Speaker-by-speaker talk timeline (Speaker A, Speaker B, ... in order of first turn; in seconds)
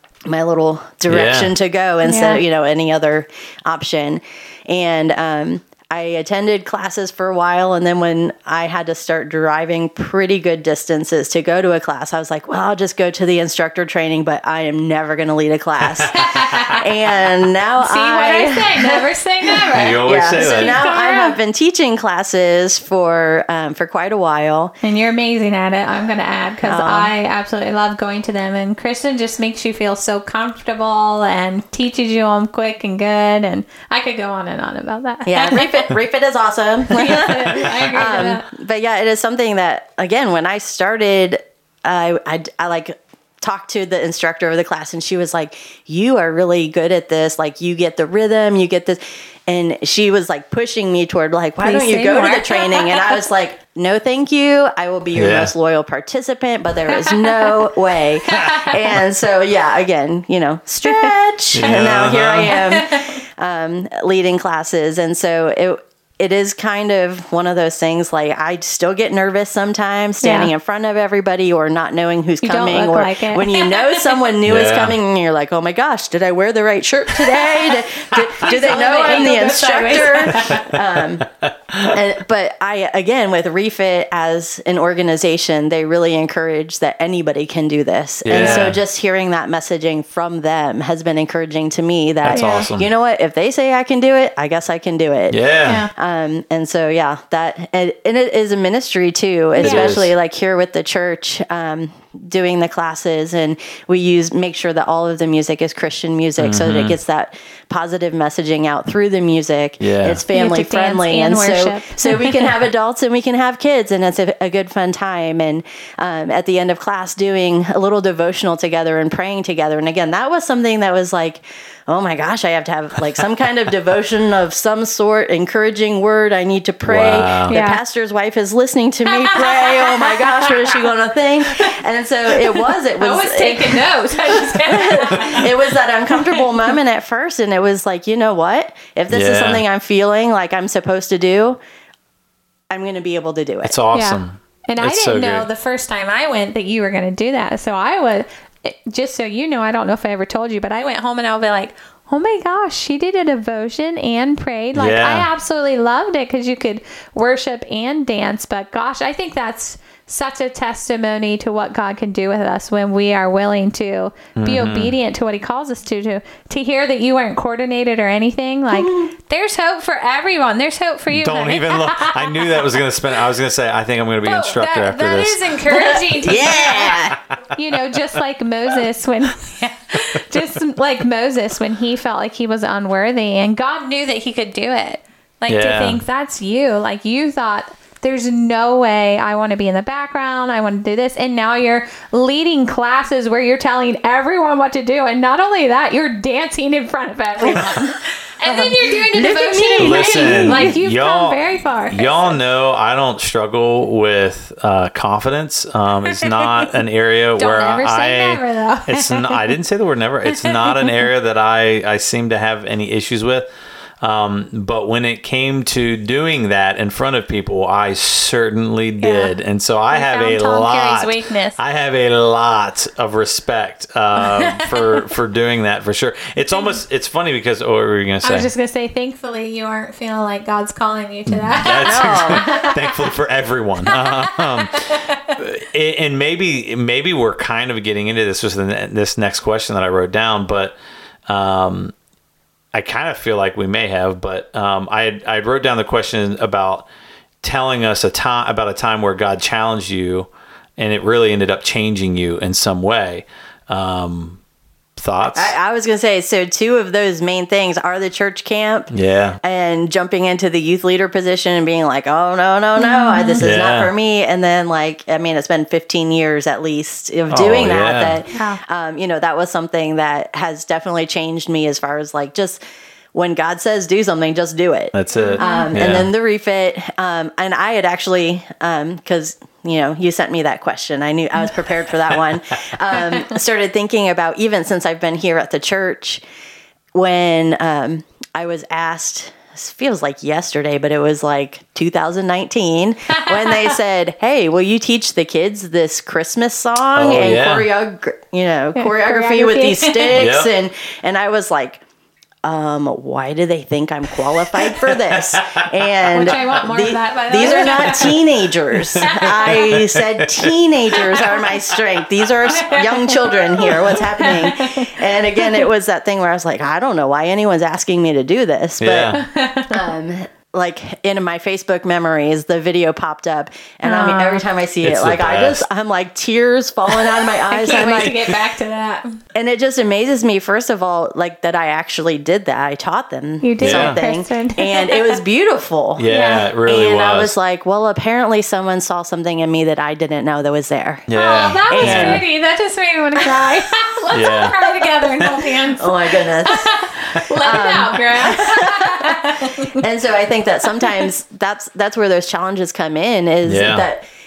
Speaker A: 0.3-24.7, 26.6-27.1, 35.2-81.3, 81.8-141.6, 142.7-143.7, 168.7-169.1, 175.7-177.2, 197.4-200.8, 231.8-232.6, 255.3-272.6, 273.1-286.2, 286.9-301.8, 302.4-328.2, 329.3-336.1, 336.6-341.1, 341.6-342.2, 343.2-343.6, 345.8-346.7, 347.3-354.0
Speaker B: 1.1-1.5, 19.7-20.8, 55.1-55.5, 58.3-58.5, 61.5-62.6, 74.4-75.0, 81.7-81.9, 88.2-88.8, 92.2-92.9, 95.3-95.8, 99.6-100.1, 106.4-107.0, 109.8-110.2, 126.8-127.6, 139.1-139.6, 143.6-145.5, 154.7-155.3, 164.4-164.9, 171.1-175.4, 185.5-186.0, 199.8-213.5, 214.0-228.5, 231.3-240.8, 241.3-241.9, 242.7-246.9, 247.4-254.4, 255.0-255.5, 258.9-259.4, 263.4-263.9, 267.3-268.2, 274.9-276.1, 296.9-297.7, 300.1-300.5, 304.6-306.6, 307.6-308.1, 308.8-311.4, 318.8-319.2, 324.8-325.6, 333.6-334.0, 336.0-337.3, 341.1-342.2, 344.1-344.6, 353.4-353.9
Speaker C: 2.0-2.4, 16.1-16.9, 17.8-21.4, 24.8-35.9, 36.9-38.4, 51.6-53.2, 57.0-57.5, 58.3-58.8, 60.8-61.1, 62.5-63.2, 70.2-70.5, 72.4-74.2, 78.4-80.8, 88.3-88.7, 92.3-92.7, 99.6-99.9, 110.3-112.5, 127.5-127.8, 129.1-130.8, 132.3-135.5, 136.1-136.5, 143.9-172.4, 174.2-202.4, 207.4-209.6, 210.4-211.0, 219.0-219.3, 219.9-221.6, 224.2-224.9, 228.2-233.1, 233.9-235.3, 262.8-263.4, 268.3-268.6, 275.1-275.7, 298.8-300.3, 306.1-308.2, 309.0-309.7, 312.4-315.1, 319.1-319.8, 323.8-324.4, 327.5-329.2, 333.4-335.2, 336.1-336.5, 341.1-349.8